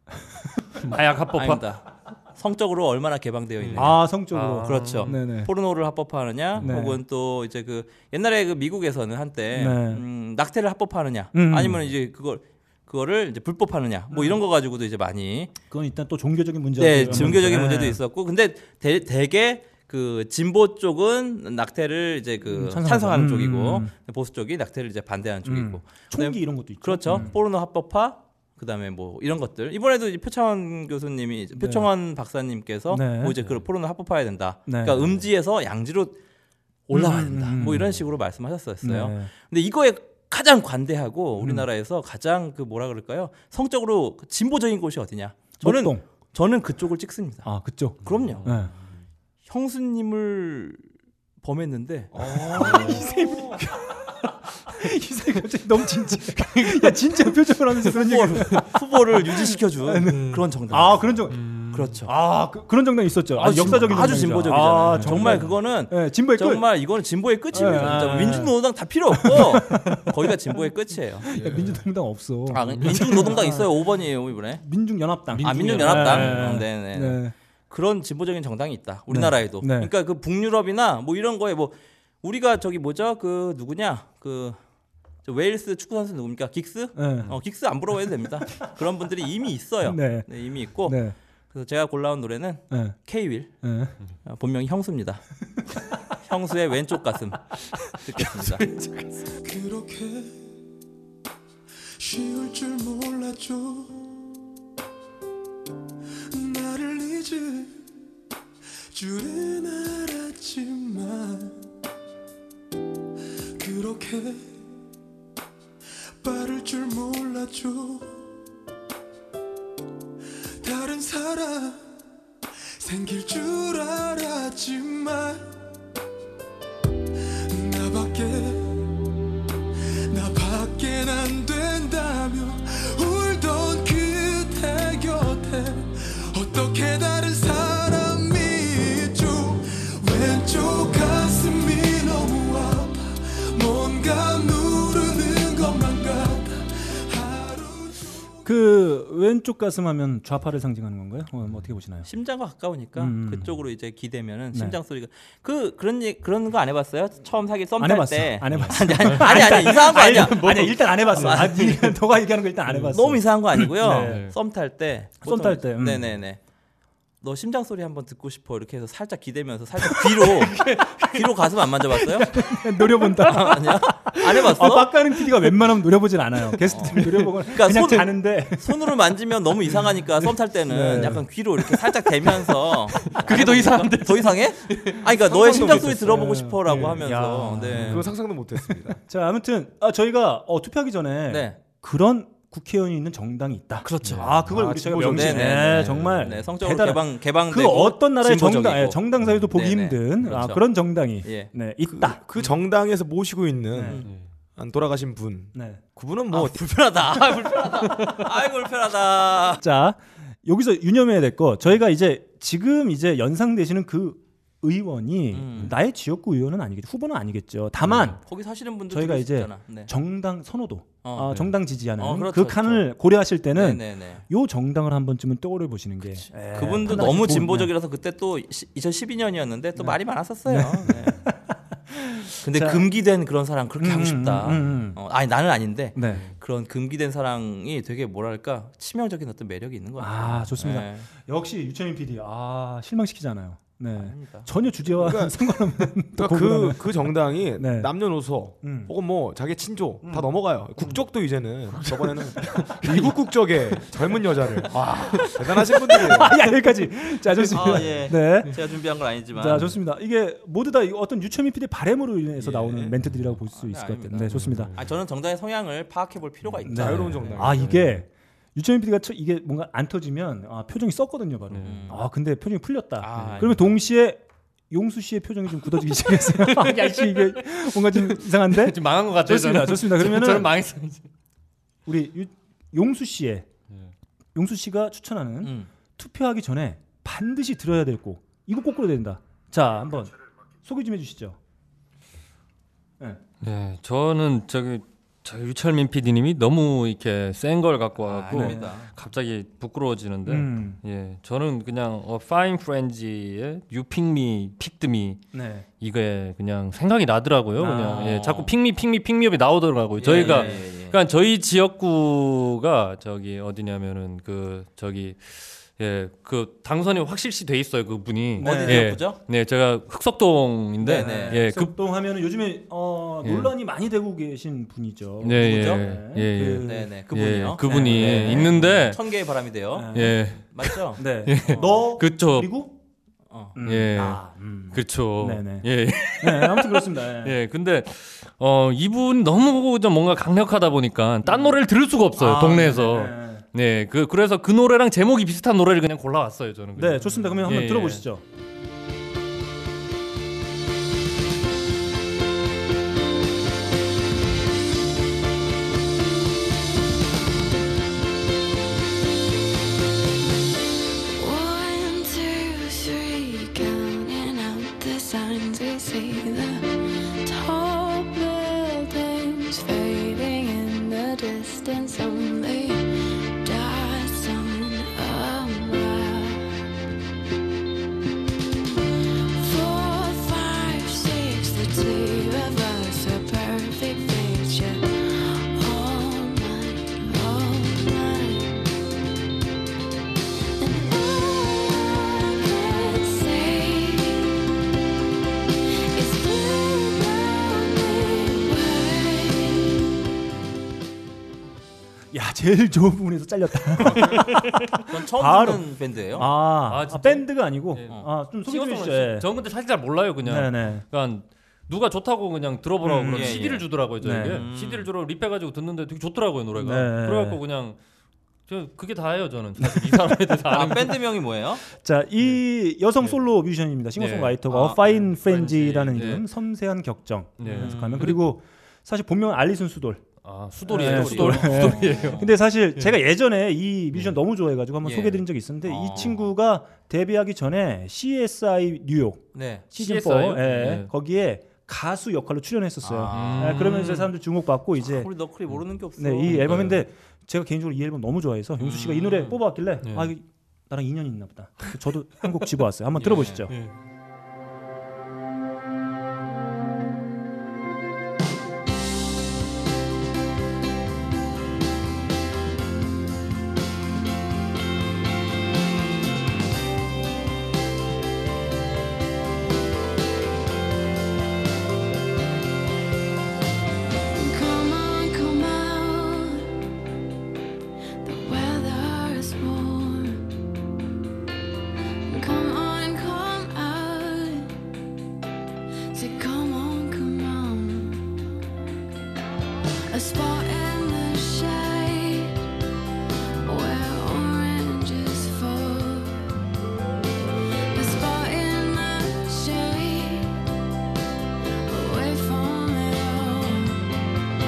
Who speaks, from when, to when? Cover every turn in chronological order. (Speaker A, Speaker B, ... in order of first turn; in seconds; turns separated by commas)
Speaker A: 0.8-1.8, Speaker B: 1.3-15.5, Speaker A: 3.6-5.2, Speaker C: 3.8-5.5, Speaker C: 6.6-7.0, Speaker C: 9.5-10.1, Speaker C: 11.3-11.8, Speaker C: 14.1-14.4, Speaker C: 15.7-18.0, Speaker B: 16.8-36.2, Speaker C: 22.4-23.9, Speaker C: 25.4-27.4, Speaker C: 31.5-31.9, Speaker C: 32.9-33.4, Speaker C: 34.7-35.2, Speaker B: 36.9-47.5, Speaker C: 36.9-37.8, Speaker A: 37.6-37.9, Speaker C: 38.8-39.3, Speaker C: 41.4-41.7, Speaker C: 45.6-46.0, Speaker C: 47.4-48.7, Speaker B: 48.0-48.6, Speaker A: 48.1-48.5, Speaker B: 49.5-50.9, Speaker B: 51.4-52.9, Speaker D: 52.1-53.4, Speaker C: 52.3-61.4, Speaker B: 57.9-61.1, Speaker A: 61.3-61.9, Speaker B: 61.7-62.1, Speaker C: 62.1-66.6, Speaker B: 63.4-71.3, Speaker A: 64.9-65.4, Speaker C: 67.5-68.6, Speaker C: 69.1-70.7, Speaker C: 71.2-73.8, Speaker D: 71.3-71.8, Speaker B: 72.5-74.6, Speaker A: 72.6-73.2, Speaker C: 74.6-77.3, Speaker A: 75.3-76.6, Speaker B: 75.4-84.6, Speaker C: 79.1-79.9, Speaker B: 85.2-91.0, Speaker C: 87.0-87.3, Speaker C: 89.8-91.2, Speaker B: 91.5-93.5, Speaker C: 92.7-93.0, Speaker C: 93.6-94.0, Speaker B: 94.2-95.2, Speaker B: 96.2-98.7, Speaker C: 98.1-99.3, Speaker E: 99.4-100.5, Speaker E: 102.0-104.1, Speaker E: 106.3-107.8, Speaker E: 108.9-111.6, Speaker E: 113.6-114.6, Speaker E: 116.2-118.2, Speaker E: 120.6-121.9, Speaker E: 122.8-125.5, Speaker E: 127.5-128.9, Speaker E: 130.1-148.3, Speaker C: 148.4-152.1, Speaker B: 152.1-161.9, Speaker C: 153.0-153.6, Speaker C: 154.5-154.8, Speaker C: 157.8-164.3, Speaker A: 158.5-160.3, Speaker A: 162.7-163.0, Speaker B: 162.9-166.4, Speaker A: 163.8-164.3, Speaker C: 165.2-166.2, Speaker B: 167.2-172.4, Speaker C: 169.9-171.2, Speaker C: 171.9-178.9, Speaker B: 173.2-175.0, Speaker B: 176.7-188.1, Speaker C: 180.7-181.3, Speaker A: 183.0-187.1, Speaker C: 185.3-188.1, Speaker A: 187.7-188.1, Speaker D: 187.8-189.0, Speaker C: 189.1-202.2, Speaker B: 191.3-191.6, Speaker B: 193.8-194.4, Speaker A: 194.0-194.4, Speaker D: 194.5-196.3, Speaker B: 195.0-200.7, Speaker B: 201.2-201.5, Speaker D: 201.9-204.0, Speaker C: 203.7-204.0, Speaker B: 203.8-204.1, Speaker D: 204.6-206.7, Speaker C: 205.5-205.8, Speaker B: 206.3-209.6, Speaker C: 209.6-218.2, Speaker B: 215.3-215.8, Speaker B: 218.2-219.9, Speaker C: 218.9-227.7, Speaker B: 221.0-222.9, Speaker B: 223.5-224.2, Speaker B: 226.2-231.2, Speaker C: 229.8-232.8, Speaker B: 232.4-241.1, Speaker C: 233.8-235.0, Speaker C: 235.9-236.3, Speaker C: 240.0-247.9, Speaker B: 244.0-244.5, Speaker D: 245.0-245.4, Speaker D: 245.9-256.4, Speaker C: 248.6-248.9, Speaker C: 250.0-250.3, Speaker C: 252.4-253.1, Speaker C: 254.7-258.6, Speaker B: 257.5-259.8, Speaker C: 259.2-264.7, Speaker B: 262.4-262.9, Speaker A: 263.1-263.3, Speaker B: 263.5-267.4, Speaker A: 264.3-264.9, Speaker C: 266.7-280.5, Speaker D: 266.7-267.8, Speaker A: 267.4-268.0, Speaker A: 271.5-271.8, Speaker B: 271.6-272.0, Speaker B: 273.0-273.8, Speaker A: 273.2-273.5, Speaker A: 276.2-281.1, Speaker C: 281.9-283.5, Speaker C: 284.4-291.4, Speaker B: 285.4-285.7, Speaker A: 293.4-305.2, Speaker B: 298.0-298.9, Speaker C: 298.3-298.8, Speaker C: 300.3-300.8, Speaker C: 305.3-305.7, Speaker A: 305.8-321.8, Speaker C: 307.6-308.2, Speaker B: 307.9-308.5, Speaker B: 310.0-311.0, Speaker C: 310.0-310.6, Speaker C: 318.4-319.0, Speaker B: 318.4-319.2, Speaker B: 320.8-321.4, Speaker C: 320.8-326.9, Speaker A: 323.2-323.5, Speaker A: 325.2-329.0, Speaker B: 325.4-325.8, Speaker B: 326.6-331.7, Speaker C: 327.6-328.9, Speaker C: 329.7-330.2, Speaker A: 329.9-332.5, Speaker C: 331.0-332.8, Speaker B: 333.3-333.6, Speaker C: 333.6-337.4, Speaker A: 333.6-348.0, Speaker C: 341.3-341.6, Speaker C: 342.2-343.4, Speaker C: 346.8-348.2, Speaker F: 361.1-376.6, Speaker F: 379.4-388.7, Speaker F: 390.6-394.4, Speaker F: 395.9-399.8, Speaker C: 402.1-409.3, Speaker A: 404.0-404.4, Speaker B: 404.9-406.3, Speaker A: 406.7-417.8, Speaker C: 410.2-410.9, Speaker C: 412.8-413.5, Speaker B: 413.1-413.7, Speaker C: 414.0-414.4, Speaker B: 414.3-414.9, Speaker C: 416.6-417.4, Speaker A: 418.5-421.0, Speaker C: 419.6-420.2, Speaker B: 420.5-421.6, Speaker C: 421.7-430.1, Speaker A: 424.0-426.2, Speaker B: 424.5-424.8, Speaker A: 427.4-428.2, Speaker B: 427.5-428.2, Speaker A: 430.2-432.2, Speaker C: 430.7-445.1, Speaker B: 430.7-432.3, Speaker B: 434.8-436.2, Speaker B: 439.3-439.6, Speaker A: 439.8-440.9, Speaker B: 442.8-444.1, Speaker A: 443.1-444.1, Speaker B: 444.8-446.8, Speaker C: 446.0-453.5, Speaker A: 446.3-446.8, Speaker B: 448.6-449.4, Speaker A: 449.8-450.1, Speaker B: 453.0-453.5, Speaker F: 474.1-476.5, Speaker F: 478.0-480.3, Speaker F: 482.1-484.6, Speaker F: 485.9-488.1, Speaker F: 489.9-492.4, Speaker F: 493.4-496.2, Speaker F: 497.7-500.4, Speaker F: 501.7-503.9